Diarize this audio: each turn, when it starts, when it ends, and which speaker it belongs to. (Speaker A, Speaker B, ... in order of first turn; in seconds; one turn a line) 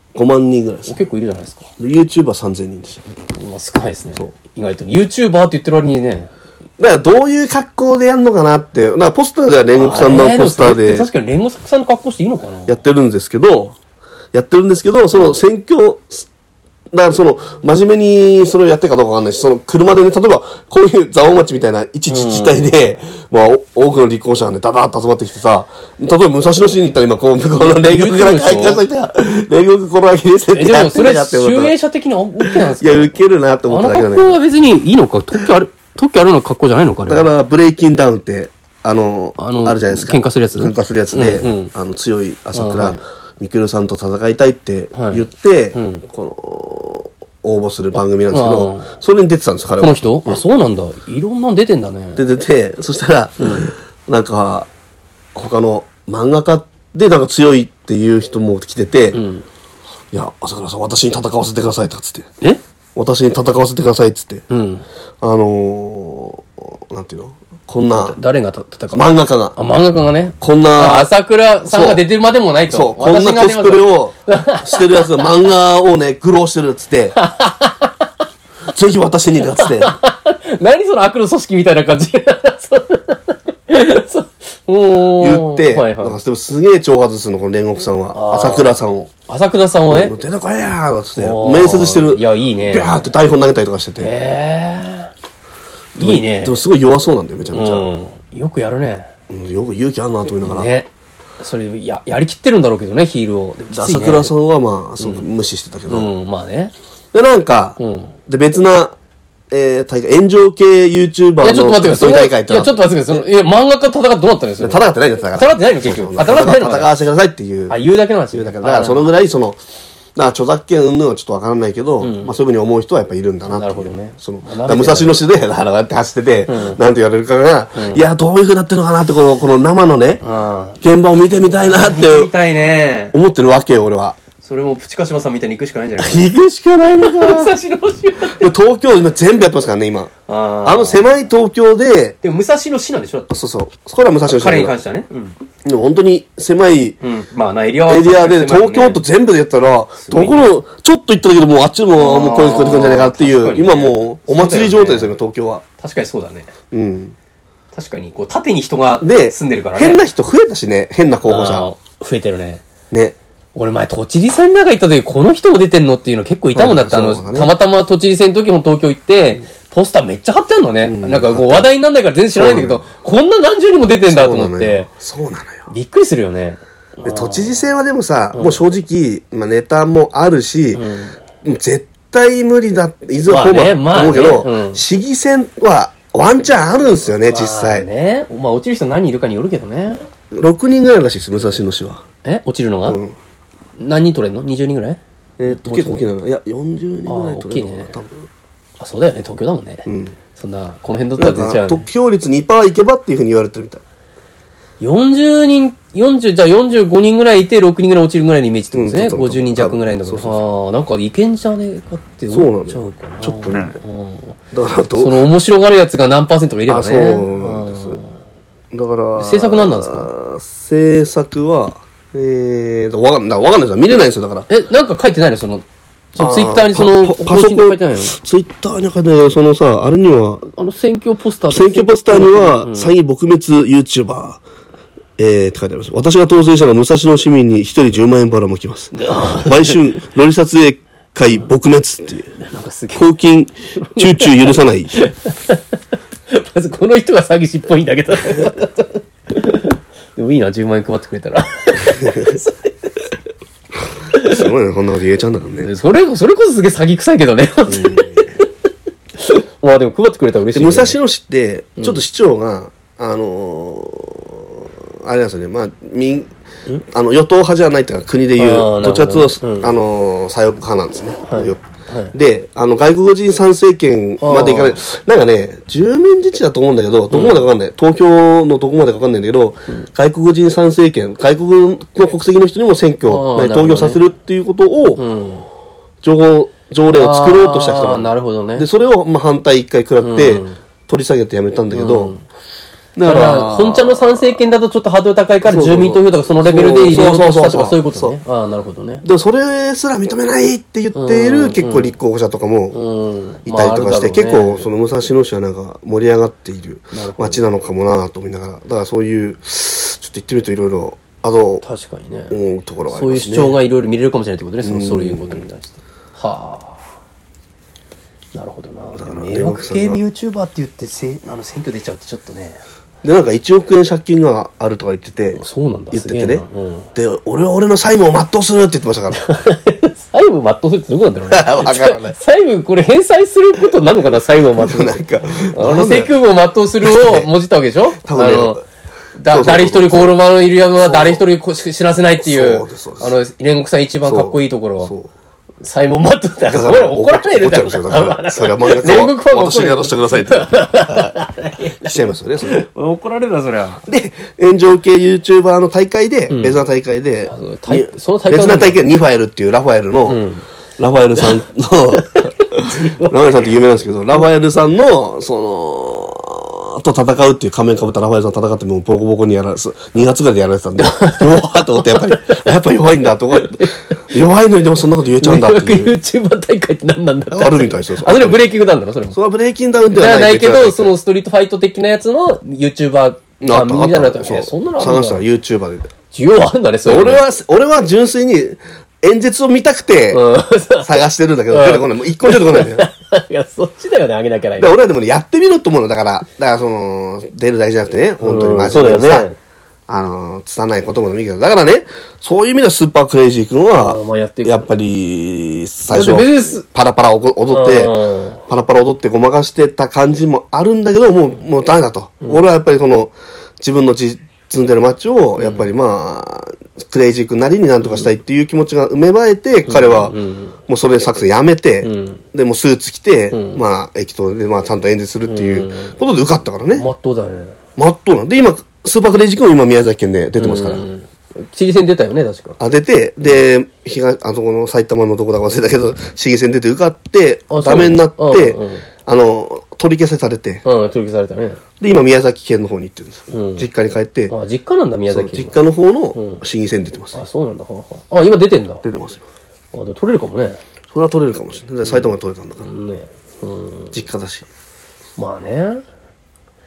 Speaker A: 0.1-1.0
Speaker B: 0.9-1.7
Speaker A: 1.8-3.0
Speaker B: 3.3-6.3
Speaker A: 6.8-11.1
Speaker B: 9.8-12.8
Speaker A: 12.7-13.8
Speaker A: 14.3-16.3
Speaker A: 16.9-31.8
Speaker B: 22.1-22.7
Speaker B: 27.7-28.8
Speaker B: 30.5-33.1
Speaker A: 32.4-34.4
Speaker B: 33.7-37.3
Speaker A: 37.1-50.4
Speaker B: 39.4-41.7
Speaker B: 42.5-43.0
Speaker B: 44.9-46.0
Speaker B: 48.3-48.9
Speaker B: 49.8-52.3
Speaker A: 52.2-54.7
Speaker B: 53.4-53.7
Speaker A: 55.4-59.2
Speaker B: 59.1-59.5
Speaker A: 60.1-62.3
Speaker A: 63.0-64.4
Speaker B: 64.5-64.8
Speaker A: 65.2-68.2
Speaker B: 67.8-75.2
Speaker A: 68.9-69.6
Speaker A: 70.4-71.1
Speaker A: 71.7-72.0
Speaker A: 72.7-77.2
Speaker B: 77.2-77.9
Speaker A: 78.7-80.0
Speaker B: 79.6-86.2
Speaker A: 85.2-89.1
Speaker B: 88.1-90.2
Speaker A: 89.9-94.1
Speaker B: 91.2-93.1
Speaker B: 94.0-95.1
Speaker B: 96.0-96.6
Speaker A: 96.0-97.9
Speaker B: 97.5-99.1
Speaker A: 99.3-100.7
Speaker B: 100.4-100.9
Speaker B: 101.4-104.3
Speaker A: 103.7-106.1
Speaker B: 105.0-105.3
Speaker B: 105.9-106.7
Speaker A: 107.1-109.0
Speaker B: 107.8-108.1
Speaker A: 109.5-113.2
Speaker B: 111.4-116.9
Speaker A: 114.6-117.8
Speaker B: 117.7-119.1
Speaker A: 118.3-119.6
Speaker A: 120.2-130.2
Speaker B: 122.0-122.3
Speaker B: 123.5-125.2
Speaker B: 126.5-126.8
Speaker B: 127.8-128.0
Speaker B: 130.2-130.8
Speaker A: 130.8-132.3
Speaker B: 131.6-133.2
Speaker A: 133.1-134.2
Speaker B: 134.4-136.3
Speaker A: 136.0-137.6
Speaker B: 137.0-138.5
Speaker A: 138.2-140.1
Speaker B: 140.3-141.1
Speaker A: 140.7-142.2
Speaker B: 142.2-143.4
Speaker A: 143.3-144.8
Speaker B: 144.2-145.3
Speaker A: 145.6-147.0
Speaker B: 147.0-149.0
Speaker A: 147.9-155.6
Speaker B: 150.0-150.5
Speaker B: 152.0-155.1
Speaker B: 155.8-156.5
Speaker A: 156.7-157.2
Speaker B: 157.7-160.0
Speaker A: 159.0-161.7
Speaker B: 161.3-162.6
Speaker A: 162.9-163.2
Speaker B: 163.6-174.9
Speaker A: 166.6-167.5
Speaker A: 170.8-171.7
Speaker A: 172.4-172.8
Speaker A: 174.1-175.7
Speaker B: 175.7-177.5
Speaker A: 177.1-180.8
Speaker B: 178.3-178.6
Speaker B: 180.7-181.2
Speaker A: 181.4-187.9
Speaker B: 183.3-184.8
Speaker B: 187.3-190.0
Speaker A: 190.3-192.0
Speaker B: 192.2-193.0
Speaker A: 192.9-193.2
Speaker B: 193.8-196.0
Speaker A: 195.4-198.3
Speaker B: 197.1-197.9
Speaker B: 198.8-201.8
Speaker A: 199.9-200.2
Speaker A: 201.2-203.8
Speaker B: 204.8-214.4
Speaker A: 208.7-210.4
Speaker A: 212.3-213.8
Speaker A: 214.5-215.3
Speaker B: 215.0-218.1
Speaker A: 216.7-218.0
Speaker A: 218.7-224.5
Speaker B: 219.2-220.1
Speaker B: 224.5-228.2
Speaker A: 226.2-230.5
Speaker B: 230.5-232.9
Speaker A: 231.5-234.4
Speaker A: 235.2-242.4
Speaker B: 238.9-239.9
Speaker B: 242.4-243.1
Speaker A: 242.9-245.0
Speaker B: 243.8-245.6
Speaker B: 246.3-252.9
Speaker A: 251.9-252.4
Speaker B: 254.1-254.5
Speaker A: 254.1-255.7
Speaker B: 255.6-258.5
Speaker A: 257.7-258.4
Speaker B: 259.2-261.0
Speaker A: 260.5-266.3
Speaker A: 266.9-285.0
Speaker B: 268.4-269.7
Speaker B: 271.2-272.1
Speaker B: 274.2-274.8
Speaker B: 277.1-277.4
Speaker B: 283.1-284.0
Speaker B: 285.0-285.5
Speaker A: 286.0-292.2
Speaker B: 286.9-288.7
Speaker B: 290.0-290.6
Speaker B: 291.7-292.2
Speaker A: 292.9-294.4
Speaker B: 293.1-299.1
Speaker A: 295.4-298.2
Speaker A: 299.0-302.8
Speaker B: 300.9-301.9
Speaker B: 302.7-304.7
Speaker A: 303.5-311.6
Speaker B: 306.9-307.4
Speaker B: 311.6-312.4
Speaker A: 312.3-313.6
Speaker B: 312.9-316.8
Speaker A: 314.6-315.4
Speaker B: 318.3-322.6
Speaker A: 318.9-320.0
Speaker A: 323.0-326.4
Speaker B: 325.4-326.9
Speaker A: 326.9-329.2
Speaker B: 329.1-338.6
Speaker A: 331.3-332.2
Speaker A: 334.6-336.1
Speaker A: 336.8-337.3
Speaker A: 338.0-338.6
Speaker B: 339.2-344.9
Speaker A: 339.3-340.2
Speaker A: 340.8-341.2
Speaker A: 342.2-343.1
Speaker A: 344.0-345.1
Speaker B: 345.6-353.9
Speaker A: 346.5-351.2
Speaker A: 351.8-352.6
Speaker A: 353.9-360.2
Speaker B: 356.3-356.6
Speaker B: 357.3-358.8
Speaker B: 360.1-360.4
Speaker A: 360.8-375.9
Speaker B: 361.9-363.6
Speaker B: 370.8-372.4
Speaker B: 373.3-374.0
Speaker B: 375.2-379.2
Speaker A: 377.3-378.5
Speaker A: 379.1-380.9
Speaker B: 379.9-385.2
Speaker A: 383.4-385.9
Speaker B: 386.1-387.2
Speaker A: 386.9-390.3
Speaker B: 390.1-394.8
Speaker A: 390.8-392.9
Speaker A: 394.6-399.3
Speaker B: 398.2-399.4
Speaker A: 399.9-420.2
Speaker B: 403.8-404.7
Speaker B: 405.9-406.6
Speaker B: 407.5-408.4
Speaker B: 415.4-415.7
Speaker B: 417.8-418.1
Speaker B: 419.7-420.6
Speaker A: 420.7-426.9
Speaker B: 421.8-422.2
Speaker B: 423.3-423.6
Speaker B: 425.3-426.0
Speaker B: 426.8-427.6
Speaker A: 427.8-430.9
Speaker B: 430.4-432.6
Speaker A: 432.6-440.6
Speaker B: 437.5-438.9
Speaker B: 440.6-441.6
Speaker A: 441.8-444.3
Speaker B: 443.3-443.7
Speaker B: 444.3-445.6
Speaker A: 445.1-447.2
Speaker B: 446.1-446.4
Speaker B: 447.1-448.8
Speaker A: 448.8-449.2
Speaker B: 449.7-450.6
Speaker A: 450.9-452.7
Speaker B: 451.9-453.9
Speaker A: 453.9-454.5
Speaker B: 455.2-455.8